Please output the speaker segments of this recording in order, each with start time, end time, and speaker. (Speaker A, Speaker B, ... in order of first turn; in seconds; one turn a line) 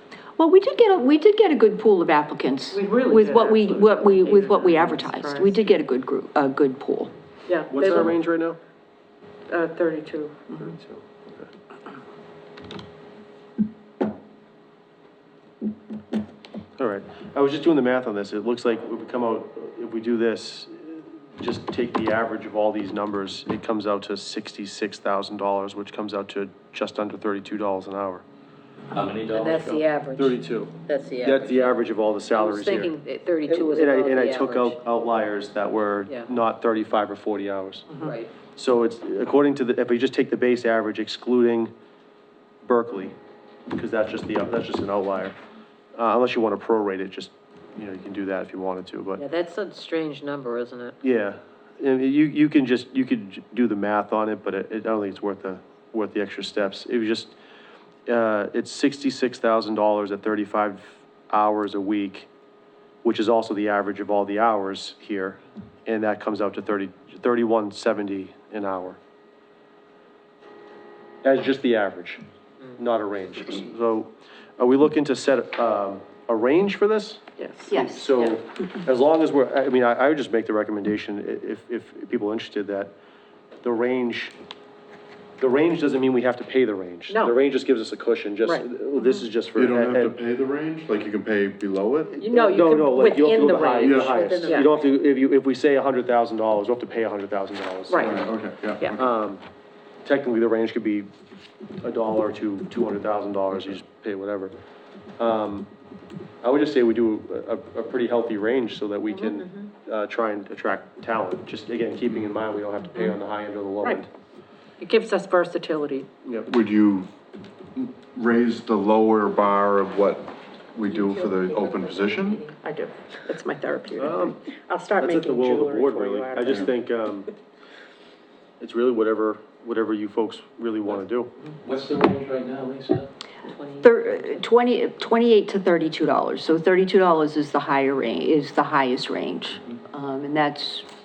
Speaker A: 0.4-7.1
Speaker B: 2.7-5.6
Speaker B: 7.5-8.2
Speaker C: 7.7-8.6
Speaker B: 9.5-10.5
Speaker C: 10.5-11.5
Speaker C: 16.8-28.2
Speaker D: 28.9-29.8
Speaker E: 29.3-31.7
Speaker C: 29.6-32.9
Speaker E: 32.3-34.8
Speaker C: 33.5-37.9
Speaker E: 37.9-38.3
Speaker C: 38.5-41.7
Speaker C: 42.6-43.1
Speaker C: 43.7-45.3
Speaker C: 45.9-49.2
Speaker E: 49.1-51.0
Speaker C: 51.0-57.3
Speaker C: 58.1-62.3
Speaker C: 63.0-69.0
Speaker C: 71.2-72.2
Speaker C: 72.8-82.9
Speaker B: 77.4-77.8
Speaker C: 83.6-84.3
Speaker C: 85.4-90.2
Speaker B: 87.1-87.4
Speaker F: 89.5-92.1
Speaker C: 92.1-98.3
Speaker B: 92.2-94.7
Speaker E: 93.5-94.9
Speaker F: 93.8-94.1
Speaker B: 97.9-98.3
Speaker F: 98.0-99.0
Speaker C: 98.9-99.4
Speaker C: 100.0-101.1
Speaker C: 101.8-104.5
Speaker C: 105.2-105.7
Speaker C: 106.4-114.1
Speaker E: 109.1-109.7
Speaker B: 114.8-116.1
Speaker C: 116.2-116.5
Speaker F: 116.5-117.1
Speaker F: 117.7-122.4
Speaker E: 120.8-122.5
Speaker B: 122.5-126.7
Speaker C: 124.0-124.4
Speaker C: 125.0-127.3
Speaker C: 128.6-131.3
Speaker D: 131.6-133.1
Speaker E: 133.4-134.4
Speaker A: 133.8-140.8